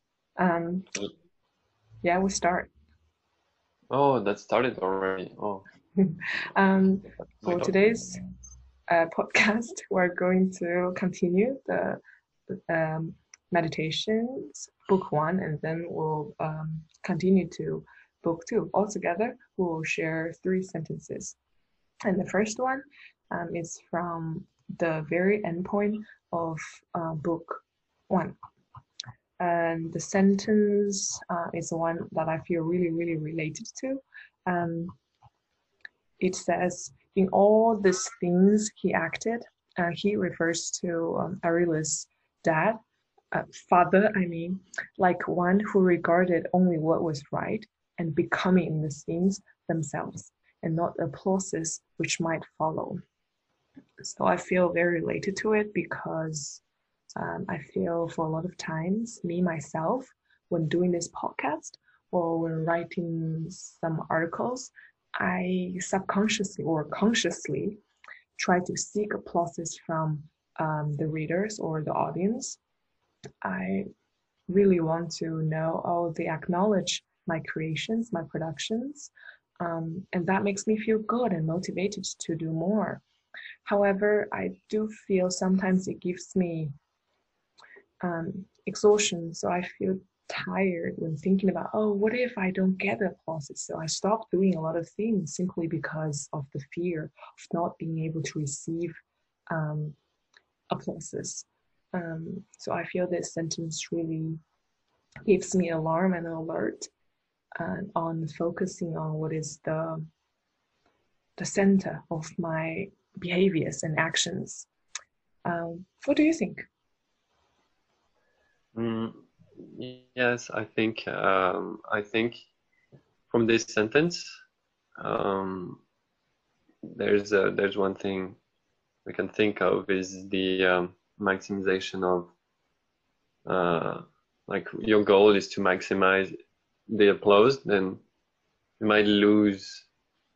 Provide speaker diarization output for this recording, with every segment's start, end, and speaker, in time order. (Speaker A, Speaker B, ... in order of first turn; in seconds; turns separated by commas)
Speaker A: 0.4-0.9, Speaker A: 2.0-2.7, Speaker B: 3.9-5.7, Speaker A: 6.0-8.2, Speaker B: 7.4-7.8, Speaker A: 8.9-21.4, Speaker A: 22.1-28.4, Speaker A: 29.4-34.9, Speaker A: 36.2-42.8, Speaker A: 43.3-53.0, Speaker A: 54.0-56.6, Speaker A: 57.2-67.8, Speaker A: 68.4-72.6, Speaker A: 73.4-73.9, Speaker A: 74.5-83.0, Speaker A: 83.7-86.8, Speaker A: 88.0-99.0, Speaker A: 99.5-100.0, Speaker A: 100.7-104.4, Speaker A: 105.3-106.9, Speaker A: 107.6-110.1, Speaker A: 111.4-114.7, Speaker A: 115.5-116.7, Speaker B: 118.8-122.4, Speaker B: 123.3-124.3, Speaker B: 125.0-125.8, Speaker B: 126.9-128.4, Speaker B: 129.1-132.3, Speaker B: 133.5-136.3, Speaker B: 136.9-138.0, Speaker B: 138.8-139.9